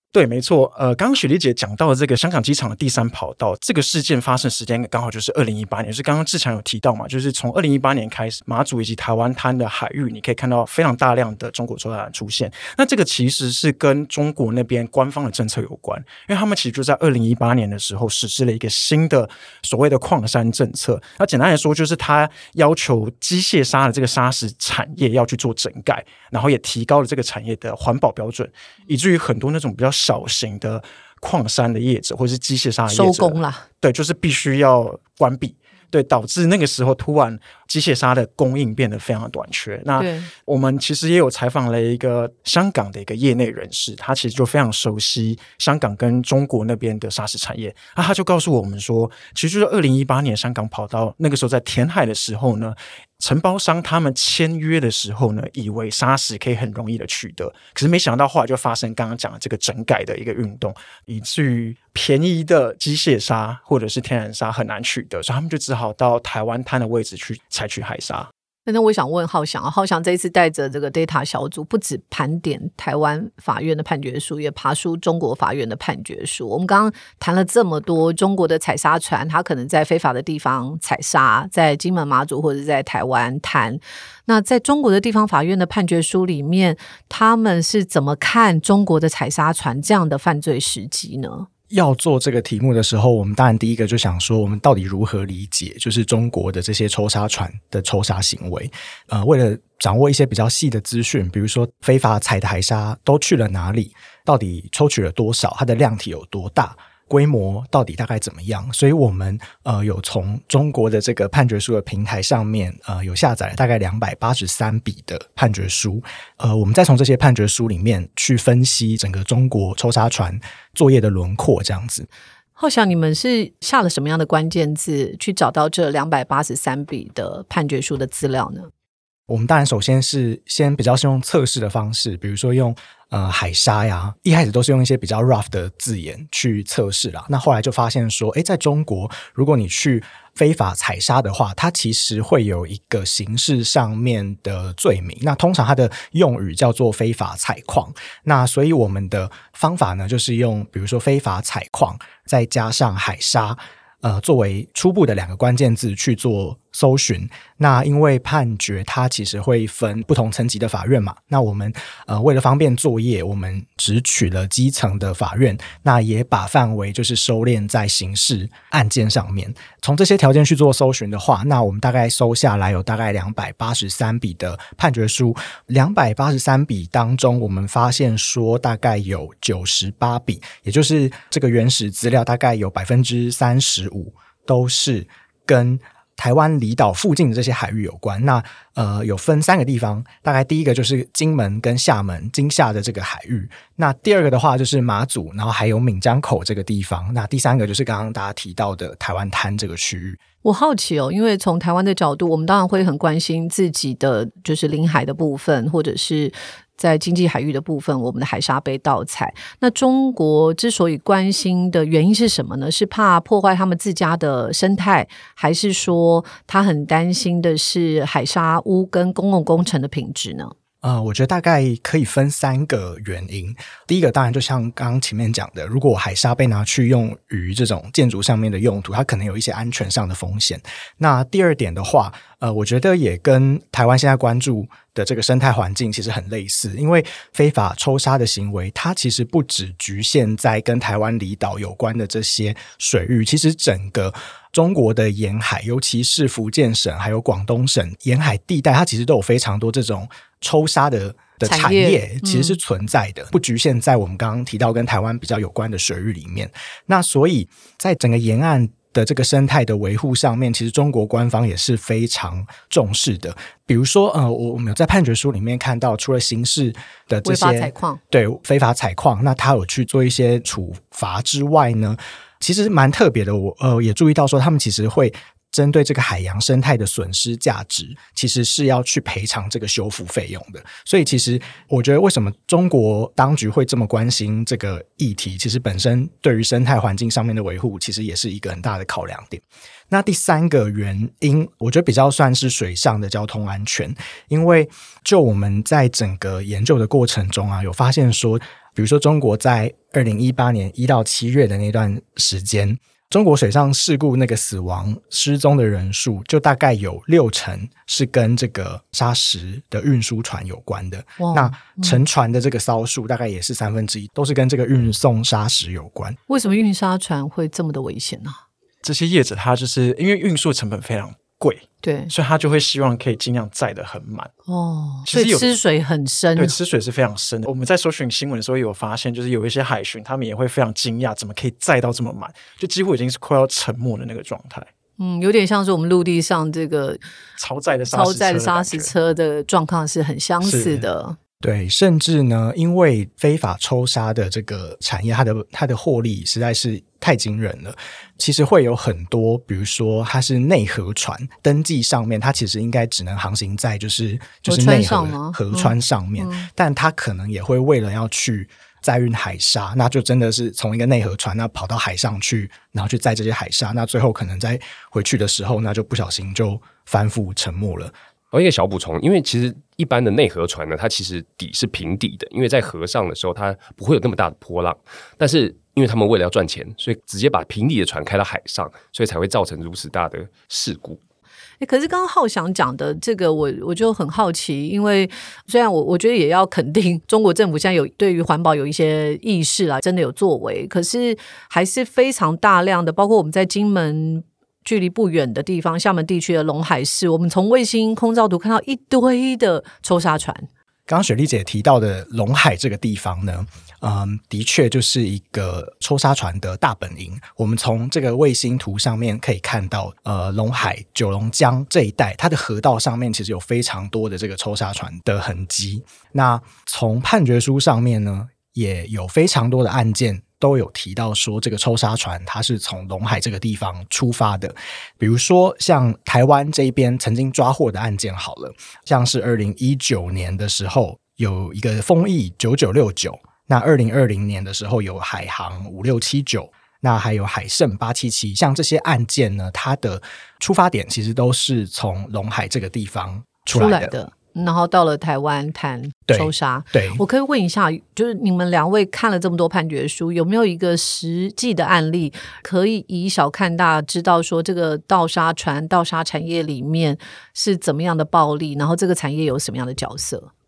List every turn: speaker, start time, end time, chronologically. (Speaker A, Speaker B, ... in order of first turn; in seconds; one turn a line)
Speaker A: 0.1-68.3
Speaker B: 32.9-33.7
Speaker B: 40.0-40.3
Speaker B: 68.7-91.5
Speaker C: 91.7-122.1
Speaker B: 122.6-128.7
Speaker C: 129.3-200.2
Speaker B: 200.4-220.5
Speaker C: 220.8-316.2
Speaker B: 251.4-252.6
Speaker B: 267.2-268.0
Speaker B: 311.2-312.0
Speaker B: 316.3-318.4
Speaker A: 318.8-324.3
Speaker B: 321.8-322.1
Speaker B: 324.5-326.5
Speaker A: 325.1-325.5
Speaker A: 326.4-334.7
Speaker B: 335.0-337.0
Speaker A: 337.4-338.9
Speaker B: 337.9-341.2
Speaker A: 340.4-340.9
Speaker C: 341.4-367.9
Speaker B: 354.5-356.5
Speaker D: 368.3-381.0
Speaker B: 381.6-400.5
Speaker C: 400.9-443.9
Speaker B: 443.5-460.3
Speaker C: 446.1-447.0